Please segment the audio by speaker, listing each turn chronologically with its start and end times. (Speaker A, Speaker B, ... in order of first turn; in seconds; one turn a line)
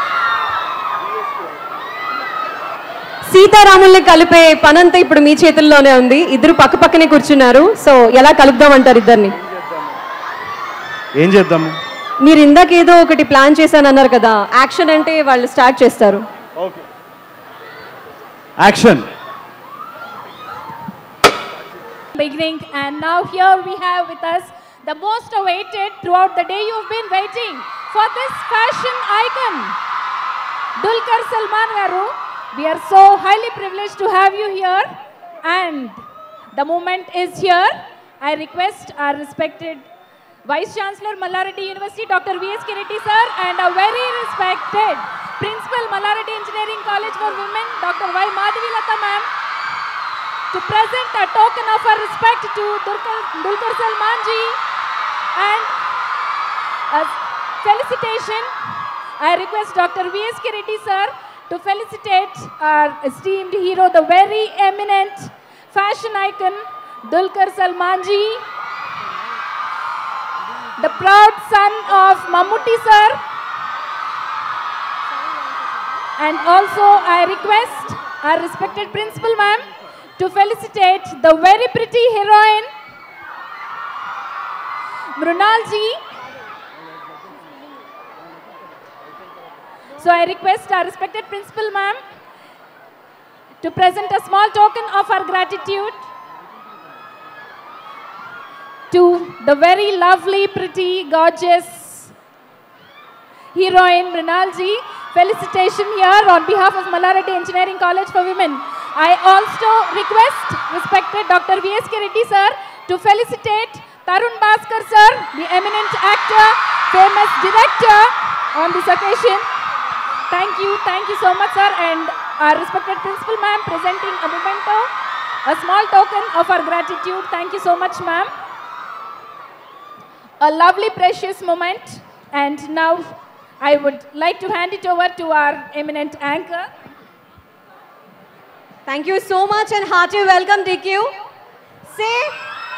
Speaker A: 1.1-1.6
Speaker B: 3.2-9.3
Speaker A: 9.3-10.0
Speaker A: 11.2-11.8
Speaker B: 12.2-16.2
Speaker A: 16.6-16.9
Speaker A: 18.6-19.1
Speaker C: 22.1-29.8
Speaker C: 30.8-36.0
Speaker C: 36.5-39.9
Speaker C: 40.5-49.3
Speaker C: 50.5-54.6
Speaker C: 55.4-55.7
Speaker C: 56.9-58.5
Speaker C: 59.2-68.4
Speaker C: 70.8-73.2
Speaker C: 76.2-82.7
Speaker C: 85.2-86.0
Speaker C: 90.0-92.0
Speaker C: 93.6-96.1
Speaker C: 98.9-102.1
Speaker C: 103.5-119.4
Speaker C: 120.3-124.9
Speaker C: 125.5-128.3
Speaker C: 130.4-136.7
Speaker B: 138.9-141.2
Speaker B: 141.9-142.4